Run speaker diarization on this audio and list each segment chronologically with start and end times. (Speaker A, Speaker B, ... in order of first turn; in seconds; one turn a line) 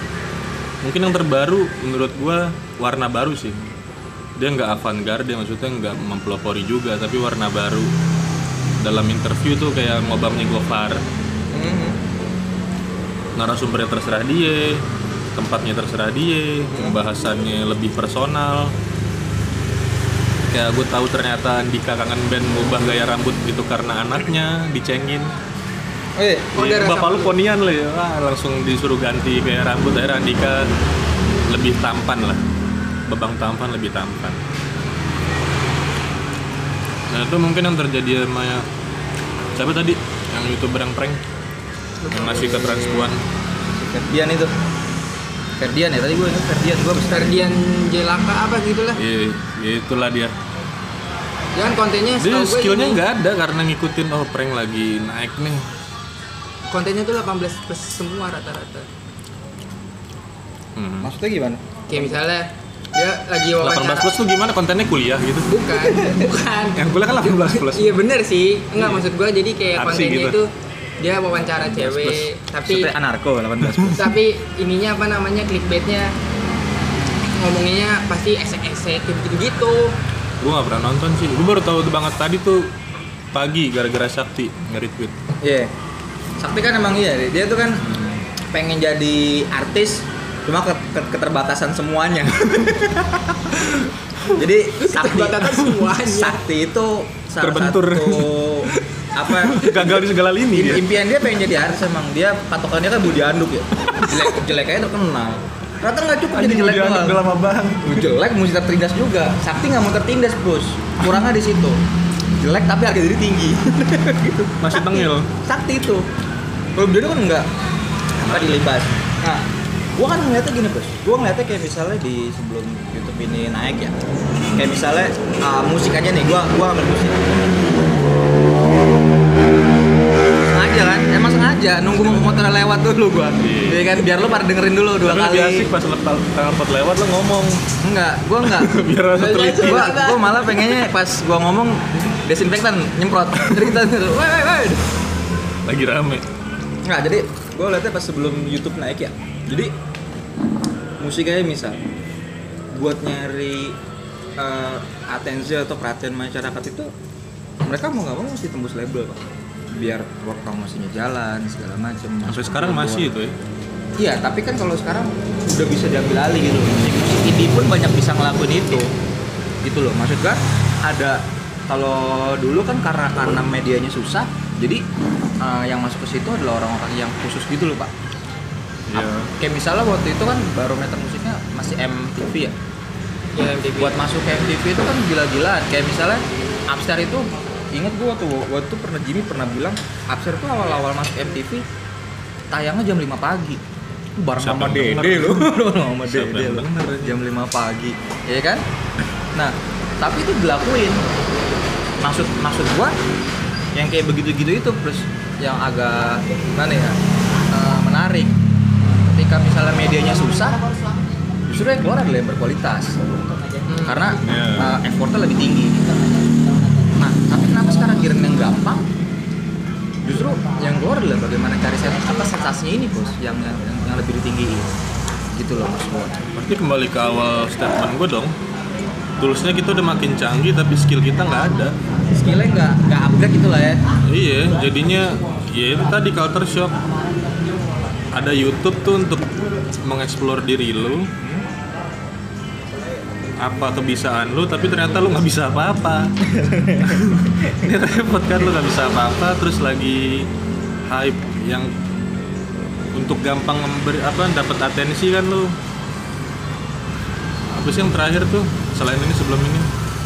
Speaker A: 0.8-3.7
Speaker A: 4.4-7.9
Speaker A: 8.8-11.0
Speaker B: 11.5-12.0
Speaker A: 13.4-18.7
Speaker B: 16.7-17.0
Speaker A: 20.5-25.3
Speaker B: 26.2-26.5
Speaker C: 26.5-27.3
Speaker A: 26.6-30.7
Speaker A: 31.5-32.4
Speaker A: 33.1-34.4
Speaker A: 37.1-38.7
Speaker A: 39.5-41.2
Speaker C: 42.0-42.7
Speaker A: 42.1-43.2
Speaker B: 42.1-43.1
Speaker B: 43.7-44.5
Speaker B: 45.6-47.4
Speaker C: 47.1-49.0
Speaker A: 49.0-50.4
Speaker C: 51.5-53.0
Speaker A: 52.2-55.7
Speaker C: 56.7-58.9
Speaker A: 60.8-61.1
Speaker B: 61.0-62.2
Speaker C: 61.9-64.1
Speaker A: 63.6-65.5
Speaker C: 65.5-72.9
Speaker A: 66.8-67.9
Speaker A: 68.8-69.0
Speaker A: 69.7-70.4
Speaker B: 71.7-74.1
Speaker A: 73.6-74.0
Speaker C: 73.9-76.1
Speaker C: 77.4-80.0
Speaker A: 80.4-82.7
Speaker A: 83.3-85.2
Speaker B: 85.4-85.7
Speaker B: 86.4-87.8
Speaker A: 87.8-88.3
Speaker B: 88.5-93.3
Speaker C: 93.6-93.9
Speaker B: 94.2-107.2
Speaker C: 94.8-96.4
Speaker A: 97.4-100.9
Speaker A: 106.3-108.1
Speaker B: 107.8-111.8
Speaker B: 112.4-116.0
Speaker A: 114.6-115.3
Speaker B: 116.8-117.5
Speaker A: 118.2-118.7
Speaker B: 118.2-124.0
Speaker B: 124.5-127.4
Speaker B: 130.5-135.7
Speaker A: 132.1-132.3
Speaker A: 133.4-133.9
Speaker A: 135.0-137.7
Speaker B: 137.8-138.8
Speaker A: 138.4-140.9
Speaker C: 139.1-140.2
Speaker B: 139.5-144.8
Speaker A: 145.7-146.3
Speaker B: 146.8-149.7
Speaker B: 151.0-151.8
Speaker B: 152.7-153.8
Speaker B: 154.4-156.9
Speaker B: 157.7-163.1
Speaker A: 162.3-163.4
Speaker B: 164.0-168.9
Speaker B: 169.6-174.8
Speaker B: 175.4-177.9
Speaker A: 178.9-179.3
Speaker B: 178.9-182.6
Speaker C: 183.4-184.0
Speaker B: 183.8-191.6
Speaker B: 192.5-193.6
Speaker B: 194.2-198.7
Speaker A: 194.4-197.2
Speaker B: 199.3-201.0
Speaker B: 202.0-203.0
Speaker B: 203.8-207.0
Speaker B: 207.5-210.6
Speaker B: 211.5-213.0
Speaker C: 213.7-214.2
Speaker B: 213.8-216.0
Speaker A: 214.2-214.7
Speaker B: 216.9-218.9
Speaker B: 220.0-224.7
Speaker B: 225.3-226.3
Speaker A: 226.3-228.3
Speaker A: 229.2-231.8
Speaker B: 232.1-233.8
Speaker A: 234.0-236.8
Speaker A: 238.1-241.1
Speaker B: 241.2-241.5
Speaker A: 243.4-250.3
Speaker B: 246.2-247.6
Speaker A: 250.8-251.7
Speaker A: 252.9-255.6
Speaker A: 257.5-259.7